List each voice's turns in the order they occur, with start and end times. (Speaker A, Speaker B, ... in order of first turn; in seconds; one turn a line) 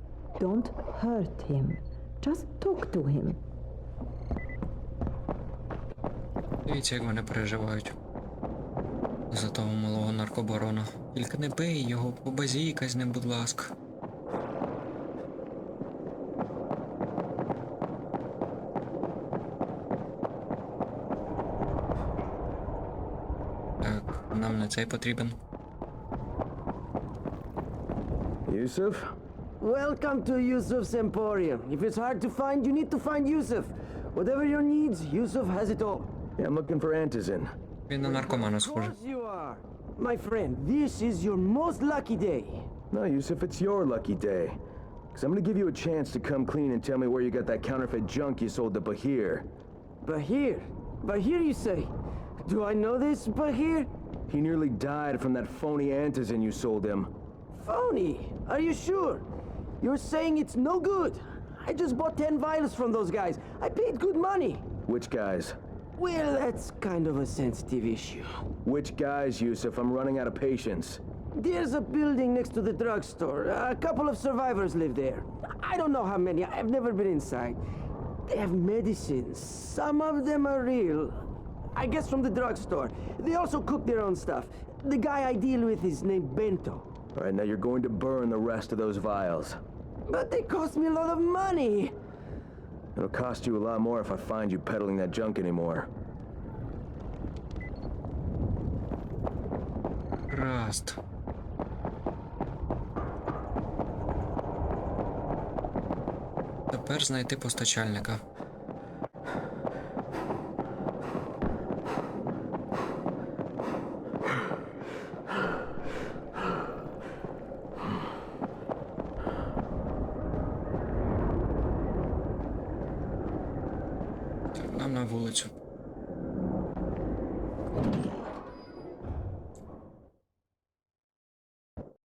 Speaker A: 0.4-3.4
Speaker B: 6.7-7.9
Speaker B: 9.3-13.7
Speaker B: 23.8-25.4
Speaker C: 28.5-29.1
Speaker D: 29.6-36.2
Speaker C: 36.4-37.5
Speaker B: 37.9-39.0
Speaker D: 38.0-42.7
Speaker C: 42.9-44.6
Speaker C: 45.1-49.5
Speaker D: 50.0-53.9
Speaker C: 54.3-57.1
Speaker D: 57.5-59.3
Speaker D: 59.8-64.7
Speaker C: 64.8-65.6
Speaker D: 66.0-68.4
Speaker C: 68.6-71.0
Speaker D: 71.3-77.6
Speaker D: 78.2-86.9
Speaker C: 87.1-89.6
Speaker D: 90.1-92.0
Speaker C: 93.0-95.9
Speaker B: 100.3-101.0
Speaker B: 106.7-108.2
Speaker B: 124.5-125.5